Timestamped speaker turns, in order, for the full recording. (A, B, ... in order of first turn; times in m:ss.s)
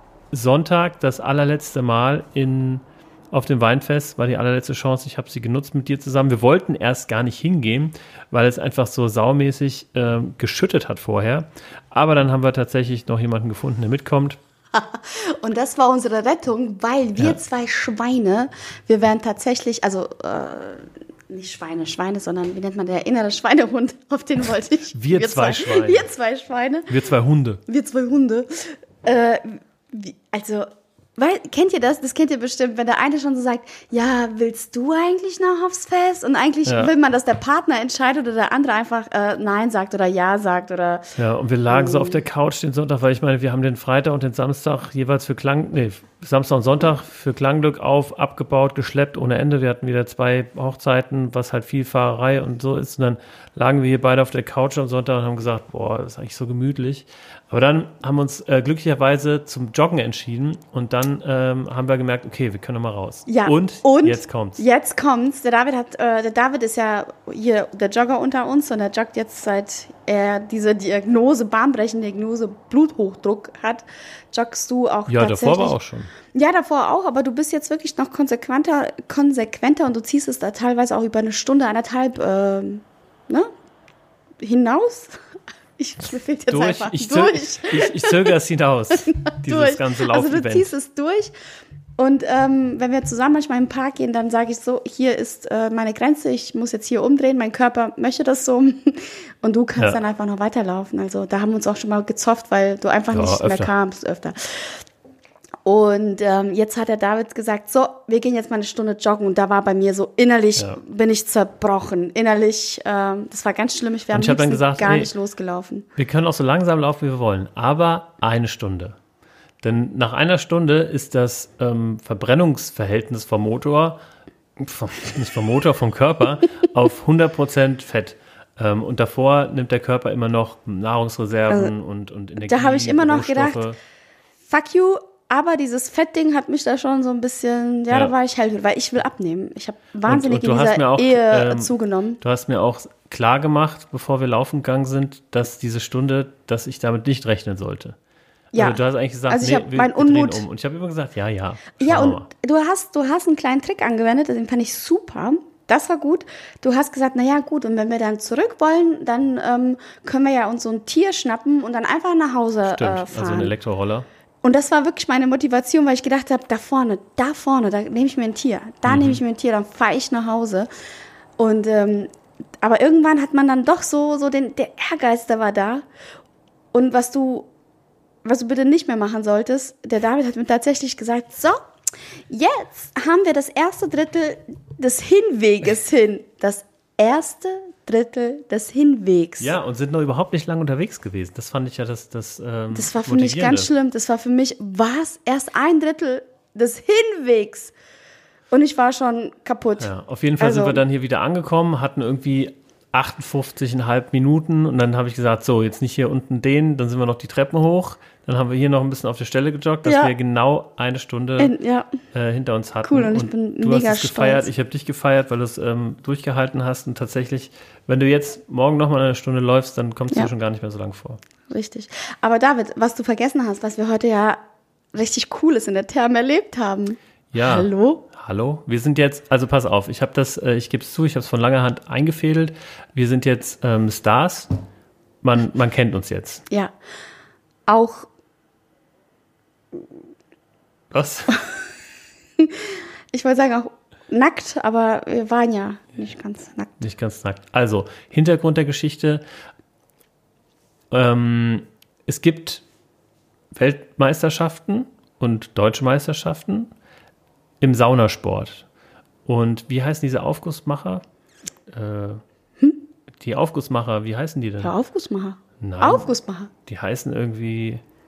0:00.3-0:14.4 A
0:14.7-0:26.9 B
0:24.9-0:26.1 A
0:26.9-0:27.6 A
0:27.7-0:41.1 B
0:36.6-0:36.9 A
0:41.2-1:04.6 A
0:41.7-0:42.2 B
1:03.3-1:15.8 B
1:15.1-1:16.1 A
1:16.3-1:23.5 B
1:24.4-1:25.2 B
1:25.8-1:28.3 B
1:26.5-1:30.7 A
1:28.9-1:31.3 B
1:32.0-1:44.8 B
1:43.1-1:43.7 A
1:45.6-1:55.9 B
1:54.1-1:55.1 A
1:56.0-1:59.0 A
1:59.6-2:04.0 A
2:04.6-2:13.8 A
2:12.4-2:13.6 B
2:14.5-2:22.2 B
2:20.0-2:28.0 A
2:28.5-2:30.4 B
2:28.5-2:32.3 A
2:31.8-2:43.5 B
2:42.6-2:44.1 A
2:44.4-2:50.7 B
2:48.8-2:49.2 A
2:51.4-2:55.8 B
2:56.7-2:57.5 B
2:58.2-3:01.6 B
3:02.3-3:09.5 B
3:09.4-3:13.7 A
3:12.7-3:17.7 B
3:18.5-3:20.8 B
3:19.8-3:31.5 A
3:29.8-3:30.1 B
3:31.4-3:31.9 B
3:32.1-3:41.2 A
3:32.8-3:34.5 B
3:41.5-3:44.4 B
3:44.9-3:48.0 B
3:47.3-3:54.5 A
3:55.2-3:56.4 A
3:56.5-3:56.7 B
3:57.7-3:58.1 B
4:00.9-4:01.4 A
4:02.4-4:06.7 B
4:06.8-4:09.2 A
4:10.9-4:12.6 A
4:13.5-4:16.7 A
4:17.6-4:18.7 A
4:19.2-4:21.0 A
4:21.7-4:22.2 A
4:23.2-4:24.7 A
4:24.6-4:26.5 B
4:25.6-4:26.1 A
4:26.6-4:27.8 A